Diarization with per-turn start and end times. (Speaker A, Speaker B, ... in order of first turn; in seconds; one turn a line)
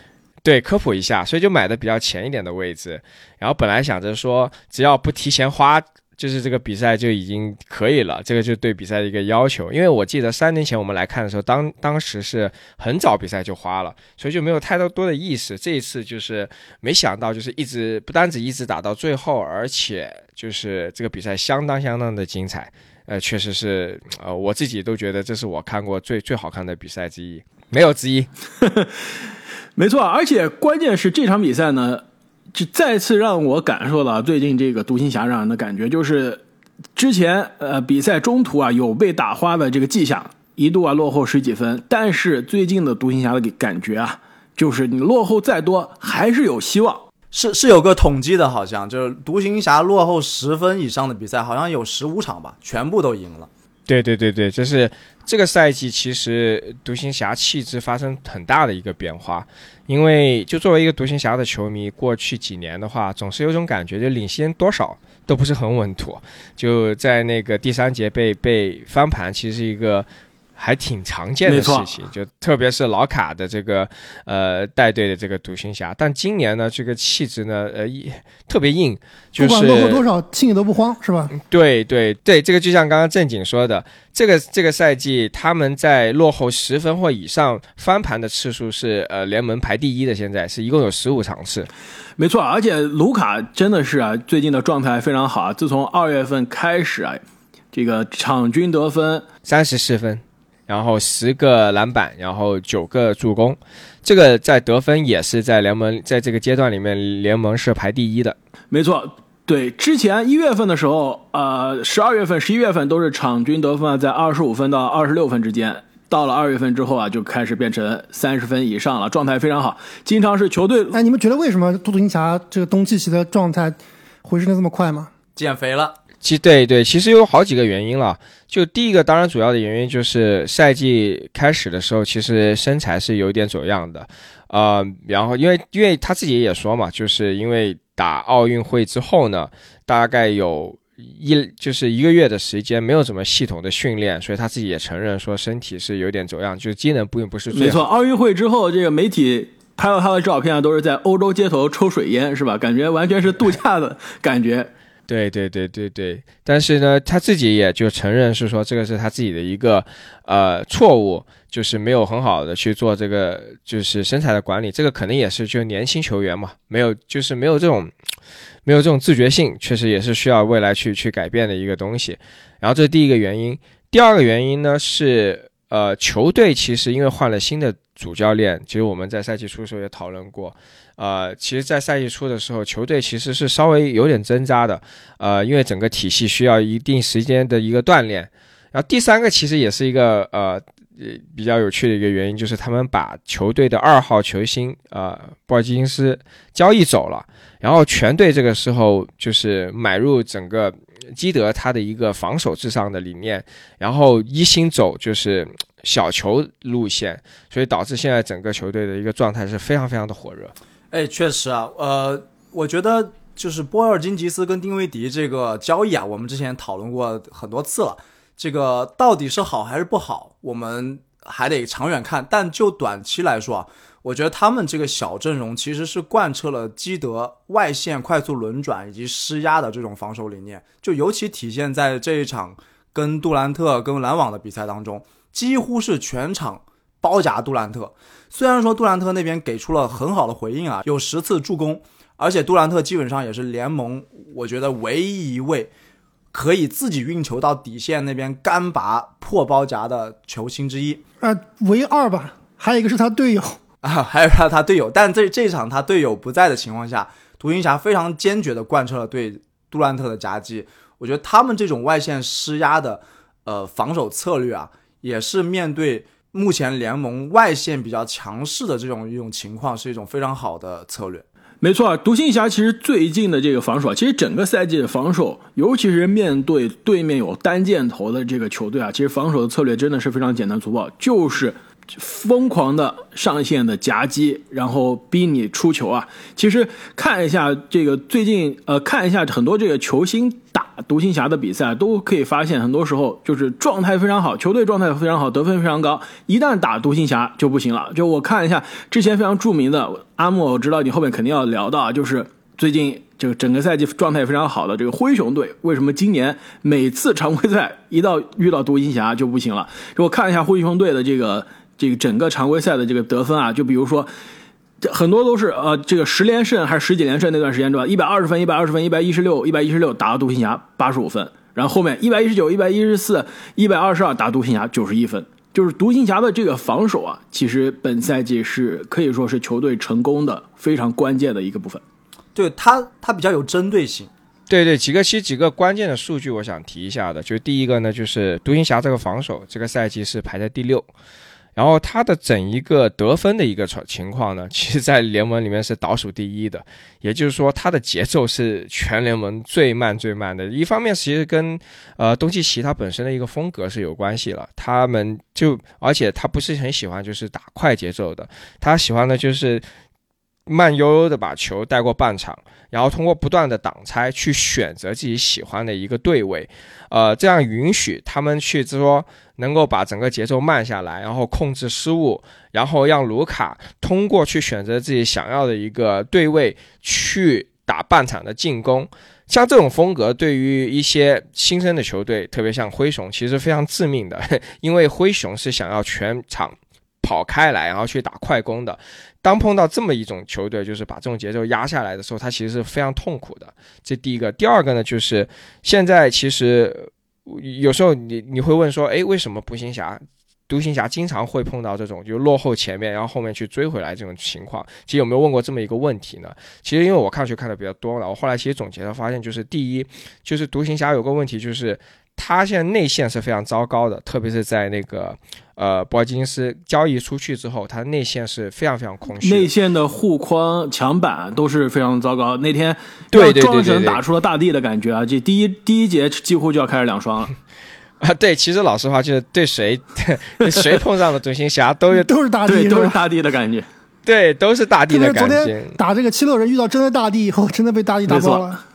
Speaker A: 0.4-28.3
Speaker B: 29.8-32.0
Speaker B: 32.5-36.4
Speaker B: 37.0-47.0
Speaker C: 47.3-53.5
Speaker A: 53.9-80.0
Speaker B: 71.5-71.9
Speaker D: 79.4-81.3
Speaker A: 81.3-91.7
Speaker B: 92.2-97.2
Speaker B: 97.7-99.2
Speaker A: 99.4-108.3
Speaker B: 108.7-121.0
Speaker D: 120.9-125.1
Speaker C: 125.3-126.0
Speaker A: 126.2-147.8
Speaker B: 147.5-154.7
Speaker A: 155.1-167.9
Speaker A: 168.7-210.5
Speaker C: 210.9-245.7
Speaker C: 246.3-251.0
Speaker D: 251.2-253.6
Speaker C: 253.8-271.2
Speaker B: 271.6-314.1
Speaker B: 314.8-331.8
Speaker C: 332.3-334.1
Speaker A: 334.5-340.9
Speaker A: 341.6-359.6
Speaker A: 360.4-419.5
Speaker B: 419.2-427.3
Speaker A: 423.1-424.0
Speaker A: 428.0-432.1
Speaker D: 431.9-433.0
Speaker B: 432.4-433.6
Speaker A: 434.1-435.8
Speaker D: 434.9-438.6
Speaker B: 438.1-438.4